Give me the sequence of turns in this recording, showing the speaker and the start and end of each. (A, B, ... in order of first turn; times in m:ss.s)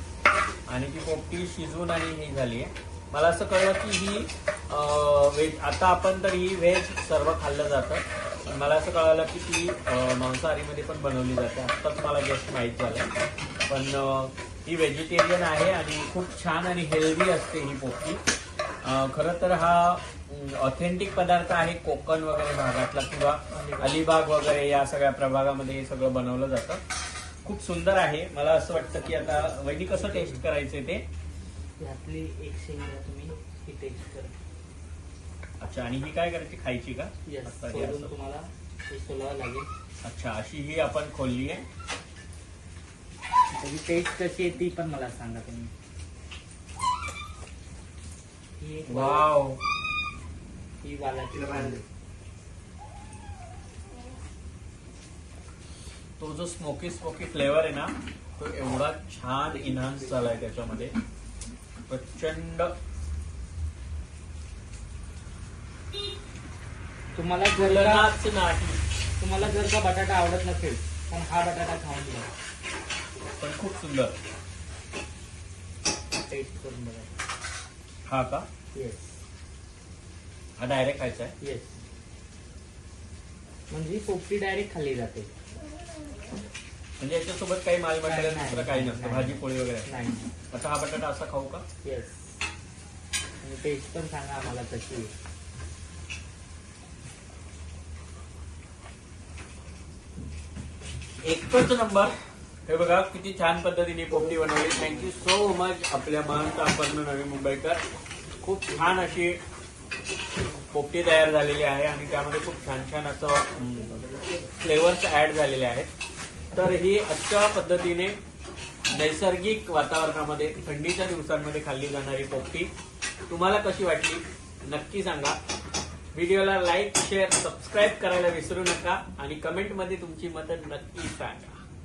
0:00.7-0:13.1 A
0:13.7-0:18.2 A
0:18.8-0:26.8 A
0:23.5-0:24.0 B
0:27.4-0:31.0 A
0:29.9-0:30.4 B
0:31.8-0:34.3 B
0:35.6-0:38.1 A
0:37.2-0:39.7 B
0:40.0-0:41.6 A
0:43.5-0:45.7 B
0:48.6-0:49.3 B
0:48.9-0:49.6 A
0:50.8-0:51.8 B
0:51.4-0:51.8 A
0:56.2-1:00.9 A
1:01.9-1:02.7 A
1:07.1-1:08.1 B
1:07.5-1:08.8 A
1:09.2-1:12.3 B
1:13.4-1:14.2 A
1:16.2-1:17.2 B
1:18.0-1:18.5 A
1:18.7-1:19.2 B
1:20.6-1:21.3 A
1:21.4-1:21.8 B
1:23.7-1:25.3 B
1:27.0-1:29.9 A
1:28.0-1:30.3 B
1:30.5-1:31.6 A
1:31.8-1:32.4 B
1:33.4-1:35.1 B
1:41.2-1:42.2 A
1:42.7-1:47.8 A
1:48.6-1:49.4 A
1:50.7-1:55.9 A
1:56.5-1:58.2 A
1:58.9-2:02.7 A
2:03.3-2:05.4 A
2:06.1-2:11.6 A